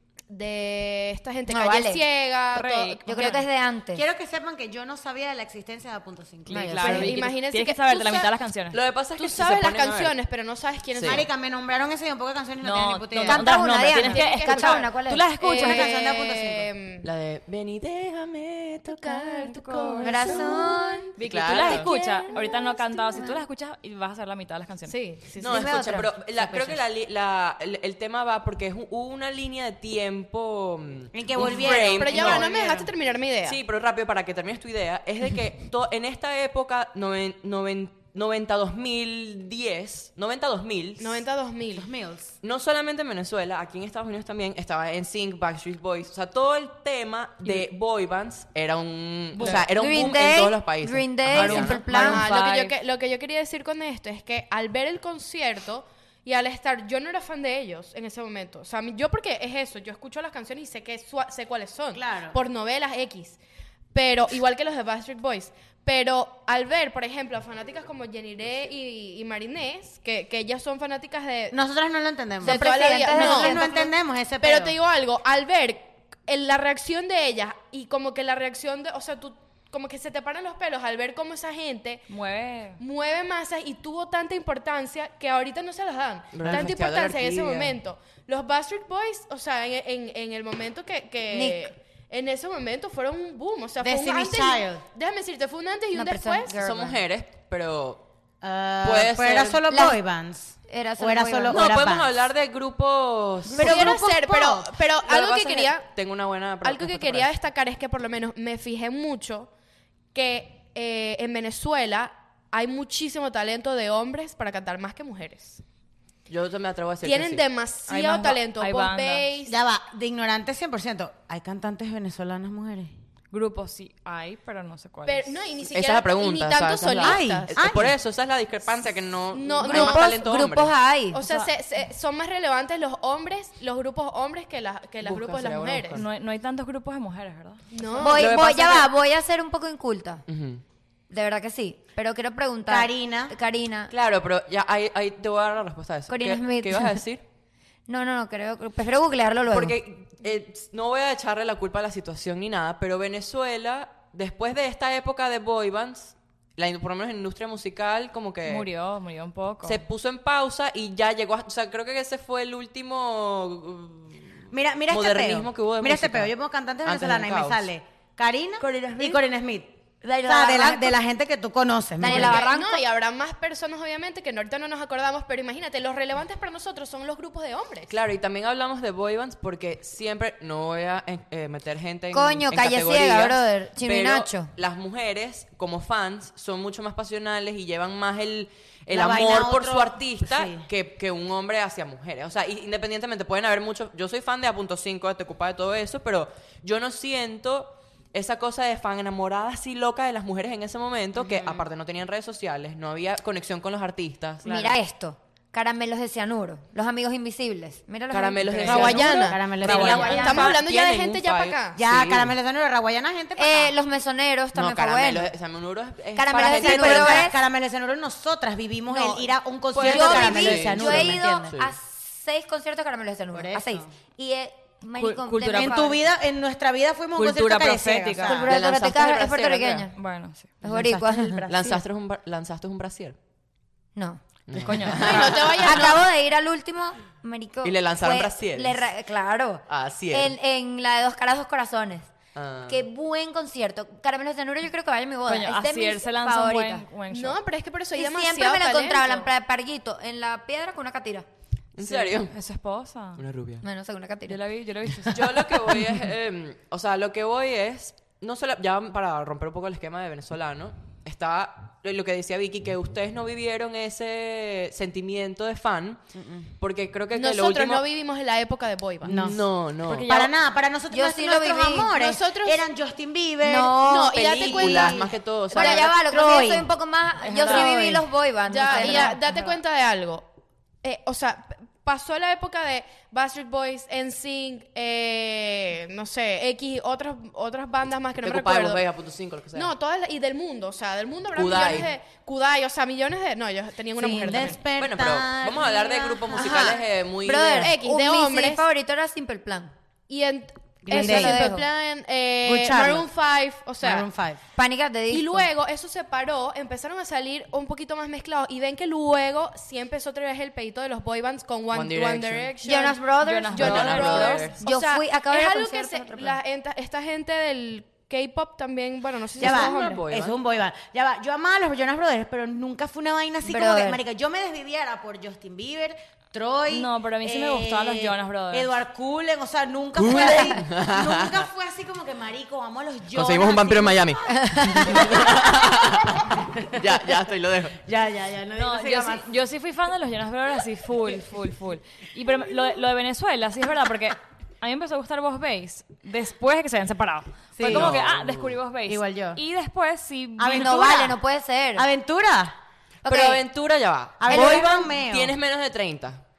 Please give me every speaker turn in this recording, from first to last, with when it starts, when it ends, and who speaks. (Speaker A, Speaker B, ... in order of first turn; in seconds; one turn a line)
Speaker A: 0.3-3.4
Speaker B: 1.5-2.0
Speaker C: 2.5-3.2
Speaker B: 3.0-4.0
Speaker D: 3.9-6.7
Speaker C: 6.5-8.8
Speaker B: 6.5-7.2
Speaker A: 6.7-8.3
Speaker E: 8.7-10.2
Speaker A: 9.1-11.3
Speaker E: 10.9-11.2
Speaker D: 11.0-13.5
Speaker C: 12.6-15.8
Speaker B: 13.2-15.3
Speaker A: 13.9-17.1
Speaker D: 15.5-16.7
Speaker E: 17.0-19.5
Speaker A: 18.9-21.0
Speaker C: 19.4-20.4
Speaker B: 20.0-21.1
Speaker C: 21.2-24.9
Speaker E: 21.2-21.9
Speaker A: 21.6-23.3
Speaker B: 21.9-22.3
Speaker B: 23.1-23.3
Speaker A: 24.9-25.9
Speaker E: 25.4-32.5
Speaker B: 25.4-26.2
Speaker D: 31.1-32.9
Speaker A: 31.6-33.6
Speaker E: 33.4-41.2
Speaker A: 41.0-41.9
Speaker D: 41.7-42.3
Speaker E: 42.4-51.8
Speaker C: 49.3-49.7
Speaker B: 49.7-52.2
Speaker C: 51.3-52.7
Speaker A: 51.9-63.4
Speaker D: 61.9-62.4
Speaker A: 63.9-71.5
Speaker D: 71.5-74.8
Speaker A: 72.4-82.1
Speaker B: 72.4-73.6
Speaker C: 82.1-82.8
Speaker A: 82.8-96.5
Speaker E: 86.3-87.8
Speaker B: 91.3-91.7
Speaker D: 93.8-94.8
Speaker B: 95.9-97.0
Speaker E: 96.5-98.0
Speaker D: 98.4-102.1
Speaker E: 98.8-99.6
Speaker B: 99.7-100.0
Speaker B: 100.7-101.7
Speaker E: 101.5-103.7
Speaker B: 103.5-103.8
Speaker D: 103.5-104.8
Speaker A: 103.6-105.9
Speaker E: 105.0-107.3
Speaker A: 106.6-109.5
Speaker A: 110.1-115.6
Speaker E: 116.3-117.4
Speaker A: 117.0-119.5
Speaker C: 117.9-119.3
Speaker D: 119.4-122.9
Speaker C: 123.3-125.3
Speaker A: 125.0-127.9
Speaker E: 125.7-130.7
Speaker D: 127.0-127.9
Speaker A: 129.3-130.3
Speaker B: 129.6-131.2
Speaker A: 131.1-136.0
Speaker C: 131.1-131.5
Speaker E: 135.0-136.0
Speaker C: 135.9-137.6
Speaker A: 137.7-138.3
Speaker B: 138.0-140.2
Speaker E: 138.0-138.9
Speaker E: 140.3-140.6
Speaker B: 141.1-143.9
Speaker D: 142.7-143.4
Speaker E: 143.9-147.2
Speaker B: 146.1-147.0
Speaker B: 147.9-149.8
Speaker E: 149.5-158.7
Speaker C: 158.4-159.8
Speaker E: 159.6-167.7
Speaker D: 164.5-172.4
Speaker E: 168.6-169.2
Speaker B: 170.0-170.9
Speaker B: 172.0-172.8
Speaker A: 172.0-177.9
Speaker E: 177.9-204.5
Speaker B: 182.1-184.5
Speaker D: 188.9-190.7
Speaker D: 201.2-201.7
Speaker D: 204.4-204.8
Speaker B: 204.4-210.5
Speaker E: 208.1-212.3
Speaker A: 208.6-211.8
Speaker D: 208.6-210.5
Speaker D: 211.7-213.7
Speaker B: 213.4-215.3
Speaker E: 214.5-217.3
Speaker B: 216.2-217.3
Speaker D: 216.5-221.5
Speaker E: 219.7-221.7
Speaker B: 219.8-226.0
Speaker D: 223.3-223.9
Speaker C: 224.9-225.9
Speaker D: 225.5-228.5
Speaker C: 227.1-228.5
Speaker B: 228.2-229.9
Speaker E: 228.4-229.9
Speaker C: 229.9-230.5
Speaker D: 230.6-231.7
Speaker B: 230.6-231.8
Speaker E: 231.5-233.2
Speaker B: 233.9-234.2
Speaker E: 234.5-235.7
Speaker C: 234.6-235.6
Speaker A: 234.9-236.0
Speaker B: 235.6-242.1
Speaker E: 237.6-238.9
Speaker E: 239.7-240.3
Speaker E: 242.3-242.8
Speaker B: 242.7-246.8
Speaker C: 245.2-247.4
Speaker A: 247.1-249.3
Speaker B: 247.9-251.2
Speaker E: 251.8-252.3
Speaker C: 251.8-253.2
Speaker E: 253.2-253.6
Speaker B: 253.6-254.4
Speaker C: 254.3-255.8
Speaker E: 255.1-266.0
Speaker D: 266.1-266.5
Speaker E: 266.6-267.9
Speaker A: 267.1-269.4
Speaker D: 269.0-269.4
Speaker E: 269.0-270.1
Speaker C: 269.8-270.3
Speaker D: 270.0-275.1
Speaker B: 270.9-271.9
Speaker A: 271.8-272.7
Speaker B: 273.4-274.8
Speaker A: 273.8-275.9
Speaker E: 274.1-275.8
Speaker B: 275.5-279.2
Speaker D: 275.6-276.7
Speaker A: 277.2-277.7
Speaker C: 277.3-277.7
Speaker D: 277.5-278.1
Speaker A: 278.4-280.2
Speaker C: 278.7-279.2
Speaker A: 280.8-288.8
Speaker E: 288.2-289.7
Speaker A: 289.5-294.6
Speaker E: 291.3-291.9
Speaker D: 293.9-296.8
Speaker E: 294.7-297.8
Speaker A: 296.4-296.8
Speaker B: 297.2-299.7
Speaker A: 297.6-298.6
Speaker A: 300.1-304.1
Speaker D: 300.8-301.5
Speaker B: 300.9-301.7
Speaker D: 302.4-303.1
Speaker D: 303.8-304.4
Speaker B: 304.6-305.5
Speaker A: 305.1-320.1
Speaker E: 311.7-312.5
Speaker B: 312.6-316.4
Speaker C: 313.2-314.6
Speaker E: 313.5-314.6
Speaker E: 319.4-320.4
Speaker D: 319.4-334.1
Speaker B: 323.4-324.0
Speaker C: 326.7-328.8
Speaker E: 330.0-331.4
Speaker E: 333.1-337.8
Speaker B: 334.4-334.8
Speaker D: 334.9-335.2
Speaker D: 336.4-336.8
Speaker D: 337.8-339.3
Speaker C: 338.5-350.8
Speaker D: 347.6-347.9
Speaker E: 347.6-348.6
Speaker D: 348.9-349.4
Speaker D: 350.4-351.2
Speaker B: 350.5-351.9
Speaker D: 351.8-352.5
Speaker B: 353.0-353.4
Speaker E: 353.0-356.2
Speaker D: 354.2-355.4
Speaker B: 354.3-354.6